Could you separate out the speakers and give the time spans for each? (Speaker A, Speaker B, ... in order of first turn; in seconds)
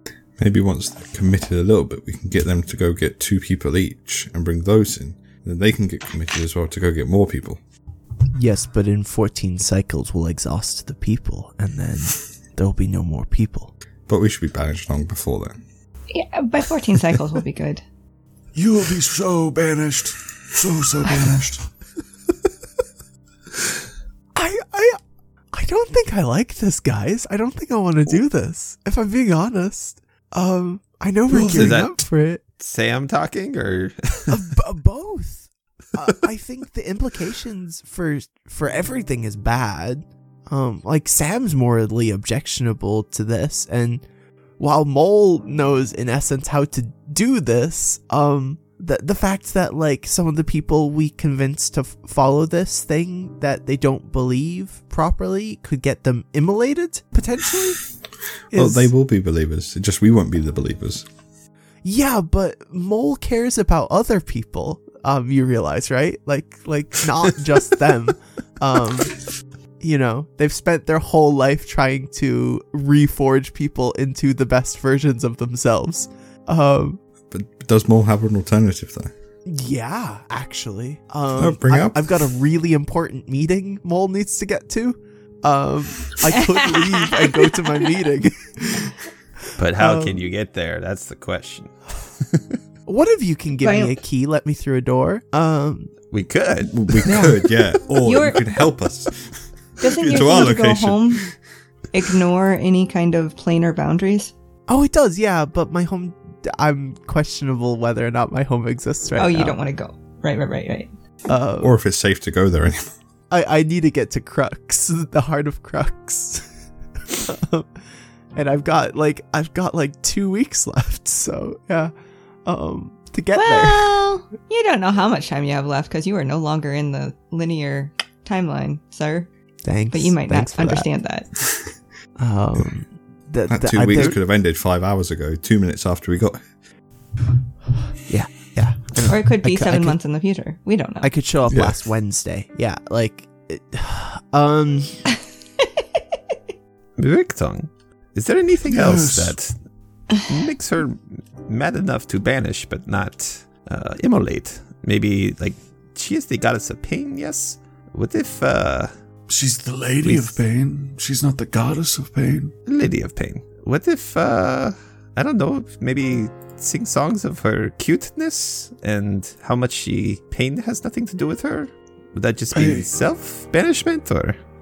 Speaker A: 0.4-7.6, 14.1-15.6, 58.5-61.0, 77.3-79.1, 81.4-82.1, 96.7-101.3, 111.6-112.9, 133.5-136.4, 141.5-141.8
Speaker B: 8.3-13.7, 24.4-25.0, 25.5-32.4, 34.3-44.0, 44.6-57.8, 58.5-58.9, 61.8-69.2, 69.8-77.0, 79.5-88.5, 89.8-90.2, 92.8-95.9, 104.7-109.6, 111.3-111.7, 113.3-116.5, 117.1-117.7, 118.3-121.9, 122.4-123.9, 129.6-130.9, 132.2-134.2, 138.1-139.9, 141.0-145.0
Speaker C: 16.1-17.8, 93.6-93.9, 98.0-98.5, 99.8-101.3, 101.9-104.3, 109.2-110.9, 123.3-129.3, 129.9-131.4, 139.1-141.1
Speaker D: 18.5-21.7, 31.3-31.8, 148.7-149.3, 159.3-162.5, 172.5-172.9
Speaker E: 31.5-34.3, 89.6-91.8, 96.1-97.8, 147.0-149.6, 150.1-158.9, 160.0-160.4, 162.7-174.4